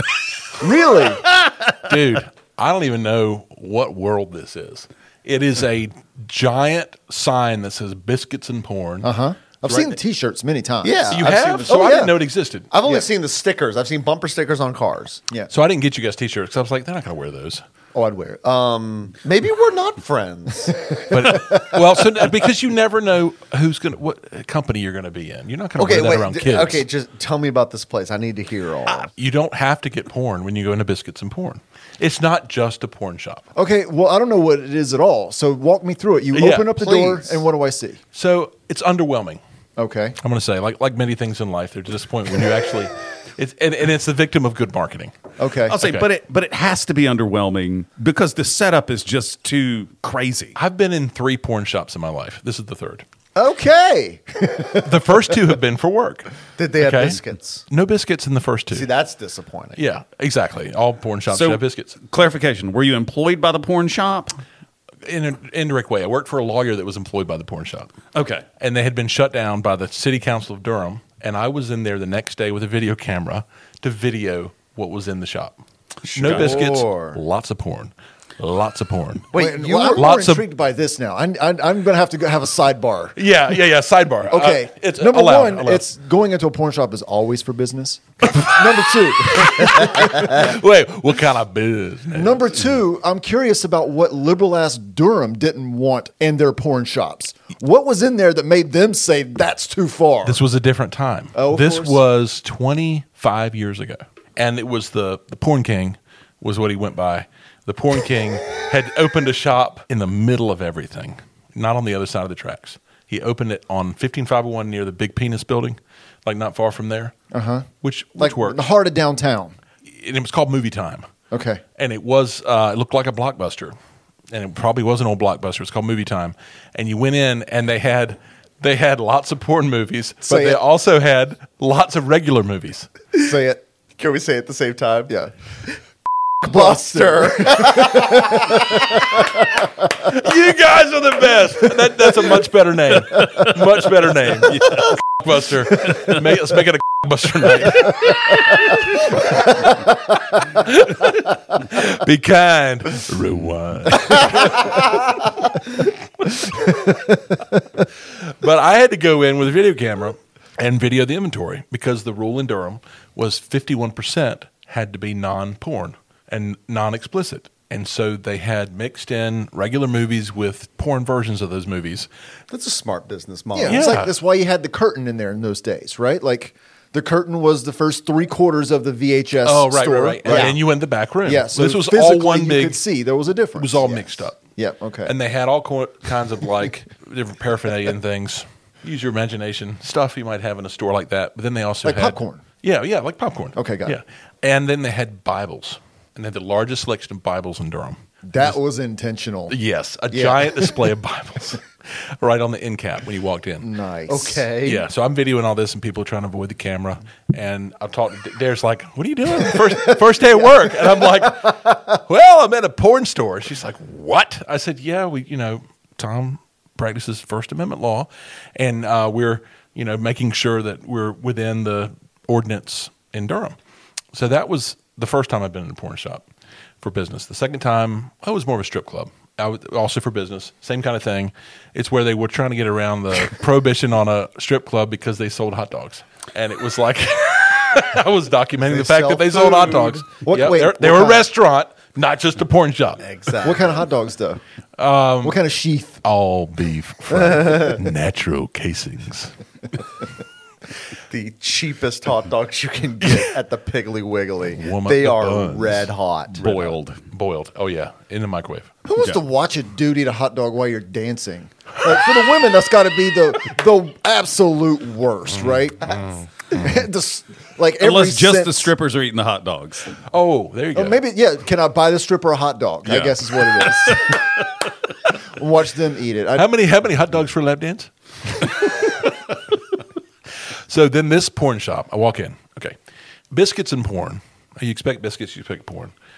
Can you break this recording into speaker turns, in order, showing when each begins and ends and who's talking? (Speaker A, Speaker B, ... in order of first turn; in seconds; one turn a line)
Speaker A: 0.6-1.2
Speaker B: 1.8-9.1
Speaker A: 9.0-12.1
Speaker C: 9.6-10.0
Speaker C: 10.8-12.1
Speaker B: 11.1-12.7
Speaker C: 12.7-15.2
Speaker B: 15.5-17.6
Speaker A: 17.9-18.4
Speaker C: 18.3-21.8
Speaker B: 21.1-26.8
Speaker C: 25.8-29.1
Speaker B: 29.2-33.5
Speaker A: 33.5-38.0
Speaker B: 36.3-36.8
Speaker C: 36.8-37.4
Speaker B: 38.1-39.4
Speaker A: 39.8-40.2
Speaker B: 40.2-45.1
Speaker A: 45.4-45.8
Speaker D: 45.7-50.5
Speaker B: 45.7-46.0
Speaker B: 50.5-53.0
Speaker A: 53.3-55.1
Speaker B: 54.8-58.9
Speaker C: 56.6-57.6
Speaker C: 58.7-59.8
Speaker B: 59.8-62.0
Speaker D: 61.3-64.4
Speaker B: 65.0-67.9
Speaker D: 68.1-68.4
Speaker B: 68.6-75.6
Speaker C: 76.1-77.2
Speaker B: 76.1-79.3
Speaker D: 76.2-76.6
Speaker C: 79.3-80.1
Speaker A: 79.3-83.2
Speaker B: 79.9-80.4
Speaker B: 83.2-85.9
Speaker A: 84.3-90.5
Speaker B: 88.2-92.6
Speaker A: 92.1-100.4
Speaker B: 100.2-117.2
Speaker A: 101.3-102.0
Speaker A: 117.3-119.5
Speaker B: 117.8-118.6
Speaker B: 119.9-121.1
Speaker A: 121.3-121.6
Speaker B: 121.8-123.7
Speaker B: 124.3-132.9
Speaker A: 130.2-130.6
Speaker A: 133.2-133.6
Speaker C: 134.0-135.1
Speaker C: 136.4-139.0
Speaker A: 136.4-138.9
Speaker B: 140.0-149.0
Speaker B: 150.4-154.7
Speaker B: 158.1-172.1
Speaker C: 172.5-173.9
Speaker A: 173.5-180.6
Speaker B: 173.7-174.1
Speaker B: 179.4-182.8
Speaker C: 180.3-180.6
Speaker A: 181.2-185.1
Speaker B: 183.6-184.4
Speaker B: 185.1-198.6
Speaker A: 191.8-192.4
Speaker A: 193.6-194.0
Speaker A: 198.2-199.6
Speaker B: 199.5-203.7
Speaker C: 200.1-200.4
Speaker A: 203.6-204.4
Speaker C: 204.1-204.8
Speaker B: 204.6-223.6
Speaker B: 224.1-226.2
Speaker B: 226.8-243.0
Speaker C: 238.7-240.0
Speaker A: 239.6-241.3
Speaker C: 243.0-243.8
Speaker A: 243.4-244.4
Speaker B: 244.8-245.4
Speaker A: 245.2-246.0
Speaker B: 246.0-249.3
Speaker C: 251.1-256.4
Speaker B: 254.5-258.7
Speaker D: 256.4-257.0
Speaker A: 258.8-268.7
Speaker B: 265.9-266.2
Speaker D: 267.8-269.9
Speaker B: 270.1-271.0
Speaker A: 270.7-274.3
Speaker D: 272.9-274.1
Speaker A: 275.3-276.5
Speaker B: 276.3-279.0
Speaker B: 280.7-282.8
Speaker B: 283.3-285.9